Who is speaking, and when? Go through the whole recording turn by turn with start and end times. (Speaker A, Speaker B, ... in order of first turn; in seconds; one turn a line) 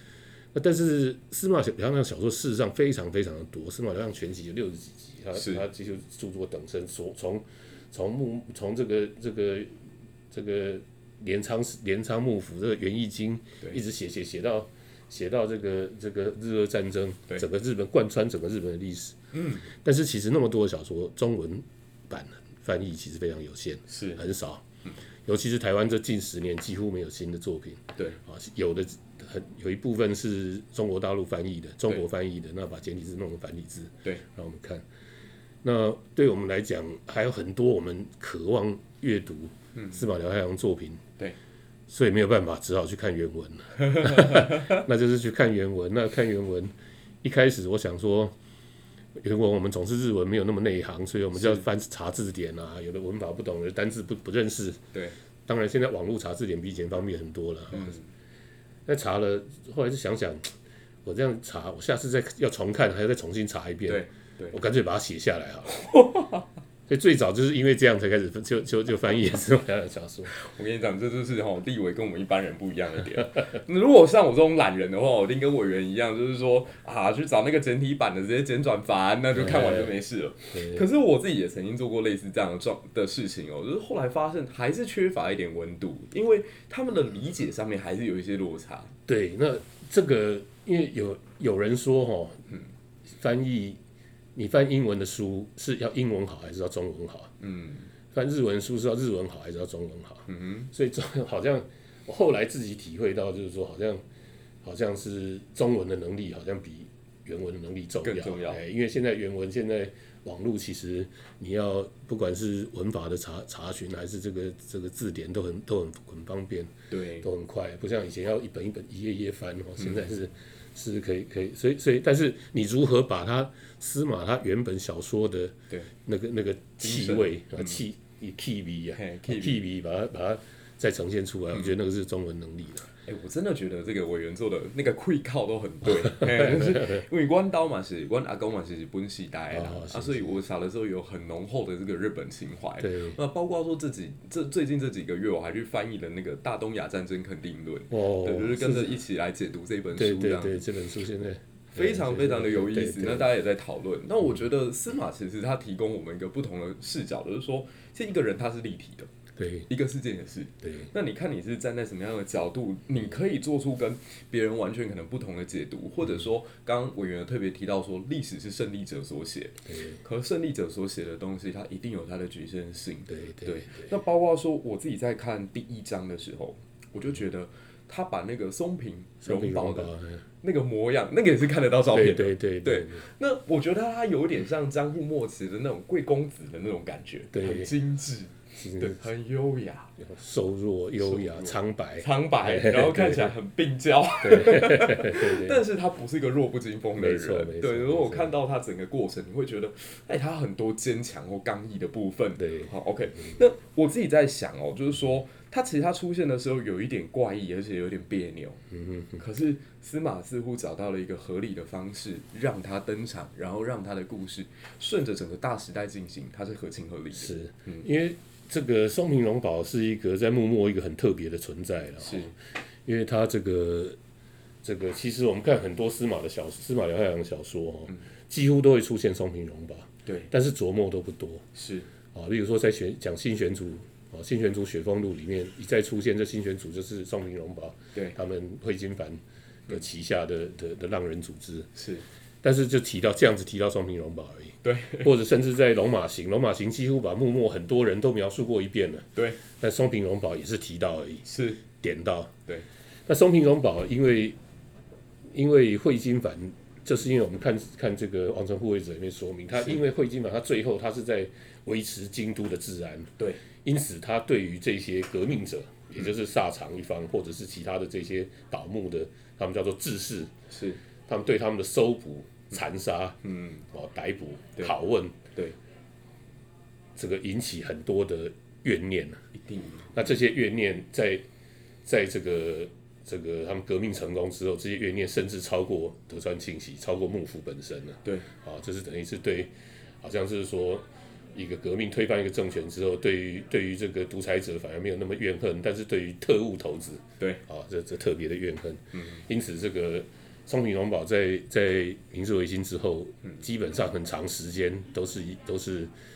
Speaker A: 0.5-9.7
Speaker B: 5.4-5.6
Speaker A: 10.3-19.2
Speaker B: 19.3-19.7
Speaker A: 19.7-24.6
Speaker B: 23.9-24.2
Speaker A: 25.2-34.8
Speaker A: 35.6-41.0
Speaker B: 39.7-40.0
Speaker A: 41.9-48.3
Speaker B: 43.8-44.8
Speaker A: 49.2-54.8
Speaker B: 51.4-51.6
Speaker A: 55.5-58.0
Speaker B: 57.7-58.0
Speaker A: 58.9-60.5
Speaker A: 61.0-65.7
Speaker B: 63.9-64.6
Speaker B: 65.7-66.4
Speaker A: 66.9-70.3
Speaker B: 70.3-88.9
Speaker A: 79.3-79.9
Speaker A: 80.5-80.8
Speaker A: 89.1-92.4
Speaker A: 93.1-93.8
Speaker A: 94.3-97.3
Speaker B: 97.4-97.9
Speaker A: 98.1-104.0
Speaker B: 100.3-100.7
Speaker A: 104.6-132.9
Speaker B: 108.0-108.6
Speaker B: 116.9-117.3
Speaker B: 119.8-120.0
Speaker B: 126.8-127.8
Speaker B: 128.9-129.6
Speaker B: 133.1-150.6
Speaker A: 136.3-136.9
Speaker A: 139.5-140.3
Speaker A: 142.8-143.2
Speaker A: 147.9-149.0
Speaker A: 149.9-153.3
Speaker B: 151.8-159.1
Speaker A: 159.4-159.7
Speaker B: 159.7-189.9
Speaker A: 160.6-160.9
Speaker A: 169.7-170.0
Speaker A: 173.1-173.9
Speaker A: 179.2-180.2
Speaker A: 181.9-183.0
Speaker A: 187.3-187.7
Speaker A: 188.6-189.0
Speaker A: 190.0-193.3
Speaker B: 191.0-208.6
Speaker A: 194.2-195.6
Speaker A: 196.9-198.3
Speaker A: 202.4-202.7
Speaker A: 208.7-209.2
Speaker B: 209.2-217.8
Speaker A: 217.1-222.3
Speaker B: 222.0-222.3
Speaker A: 222.8-224.0
Speaker A: 224.6-231.4
Speaker B: 231.5-231.9
Speaker A: 232.1-241.7
Speaker B: 241.8-242.0
Speaker A: 242.4-252.3
Speaker B: 244.6-245.1
Speaker B: 251.2-251.6
Speaker A: 253.1-254.4
Speaker A: 255.3-270.3
Speaker B: 270.5-270.8
Speaker A: 271.1-275.2
Speaker B: 273.2-273.6
Speaker A: 276.9-279.2
Speaker B: 279.3-279.9
Speaker A: 279.9-281.2
Speaker A: 281.8-305.9
Speaker B: 298.9-299.2